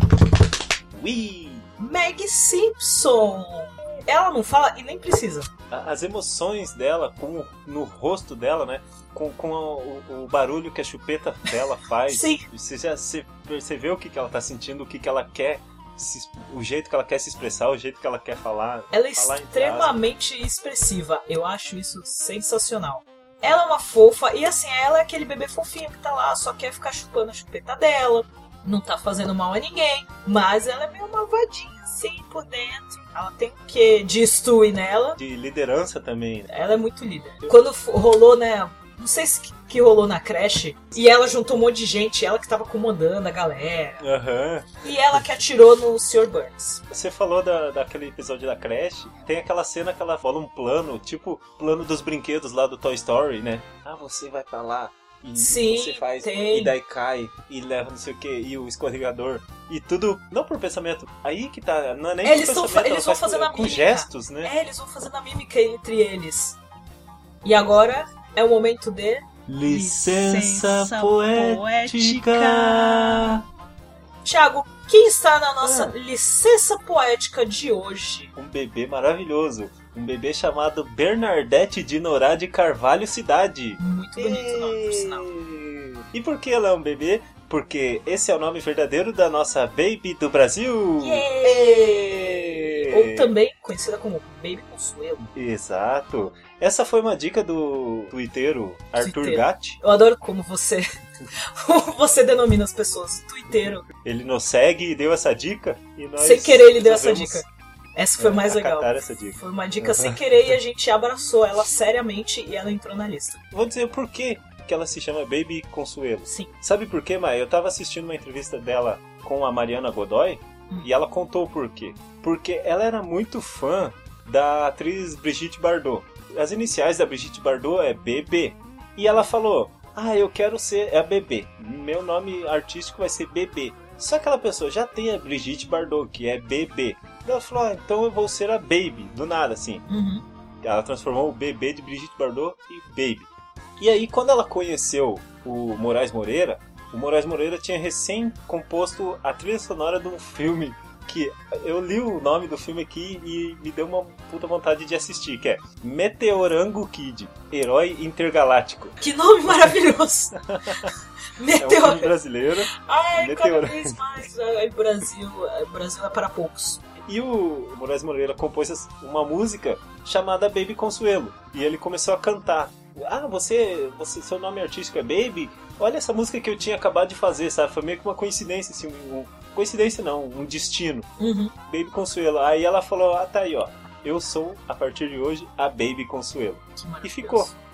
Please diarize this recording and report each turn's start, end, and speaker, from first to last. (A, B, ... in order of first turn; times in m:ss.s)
0:00.9-0:01.7 A
0:01.8-0:05.5 B
0:05.7-0:20.0 A
0:12.1-0:12.4 B
0:18.9-0:35.2 B
0:35.2-0:36.5 A
0:36.5-0:44.0 B
0:44.0-0:44.8 A
0:44.8-0:46.8 B
0:46.9-1:04.5 A
0:55.4-0:56.7 B
1:02.2-1:06.6 B
1:07.4-1:13.4 B
1:09.5-1:13.4 A
1:14.2-1:18.3 B
1:15.6-1:15.9 A
1:18.4-1:33.3 A
1:23.8-1:25.3 B
1:31.0-1:35.3 B
1:35.3-1:39.8 A
1:39.0-1:43.8 B
1:44.0-1:47.4 A
1:46.2-1:53.4 B
1:48.2-1:50.2 A
1:53.5-2:19.8 A
1:56.2-1:56.5 B
2:19.9-2:20.2 B
2:20.6-2:23.3 A
2:23.8-2:39.0 A
2:39.0-2:42.1 B
2:40.4-2:40.9 A
2:41.6-2:44.0 A
2:42.7-2:46.8 B
2:47.0-3:01.1 A
3:01.2-3:01.5 B
3:01.7-3:07.5 A
3:06.8-3:07.6 B